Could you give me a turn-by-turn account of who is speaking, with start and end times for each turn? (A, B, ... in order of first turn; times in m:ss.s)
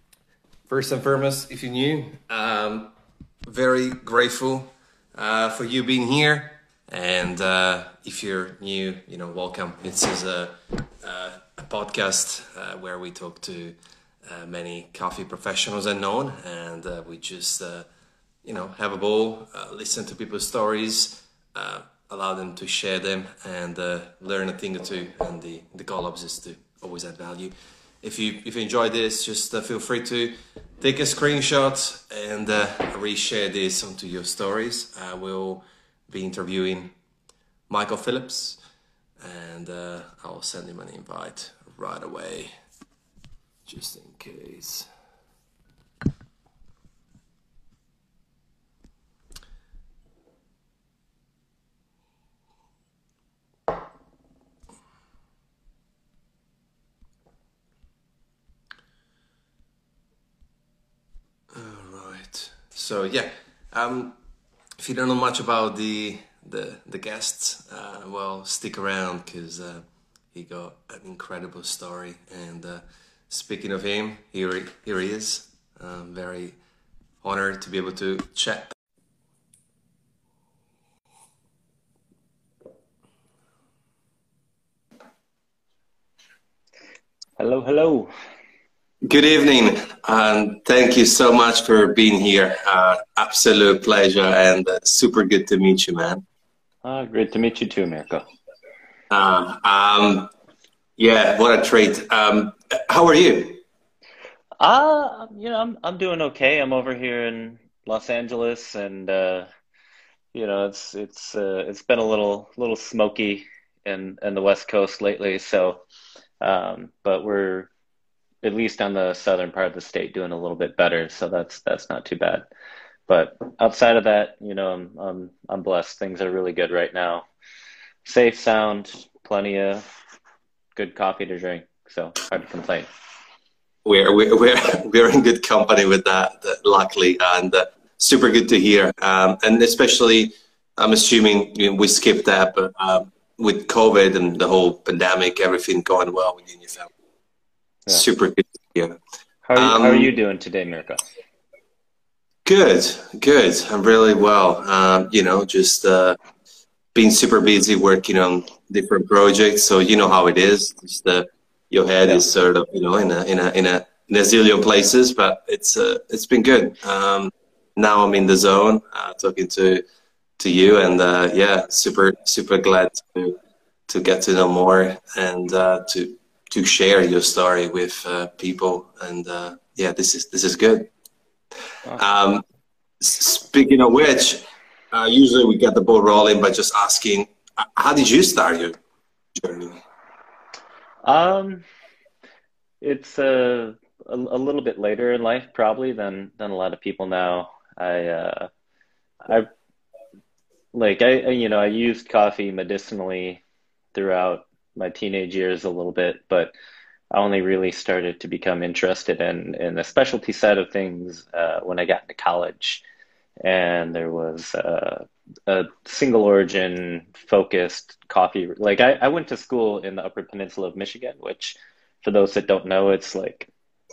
0:00.7-0:02.9 A
0:03.5-0:17.8 A
0:18.4-0:36.9 A
0:37.7-0:38.6 A
0:39.2-0:42.5 A
0:43.7-0:44.9 A
1:01.5-1:04.2 A
1:04.8-1:16.6 A
1:17.2-1:18.7 A
1:27.4-1:28.1 B
1:29.0-1:36.2 A
1:36.8-1:38.3 B
1:39.1-1:40.3 A
1:41.0-1:43.6 A
1:44.6-1:49.5 B
1:50.3-1:55.8 B
1:56.4-1:57.7 B
1:58.4-2:02.5 B
2:03.1-2:07.2 B
2:08.0-2:09.8 B
2:10.8-2:12.9 B
2:13.8-2:26.9 A
2:27.9-2:29.0 A
2:29.4-2:31.0 B
2:29.6-2:30.1 A
2:32.4-2:36.2 A
2:36.9-2:49.8 A
2:50.4-2:53.4 A
2:53.9-3:00.9 A
3:01.9-3:02.4 A
3:03.0-3:08.8 A
3:09.4-3:09.8 A
3:11.0-3:11.6 B
3:12.8-3:18.5 B
3:20.7-3:23.4 B
3:23.9-3:26.5 B
3:27.1-3:32.8 B
3:33.4-3:43.5 B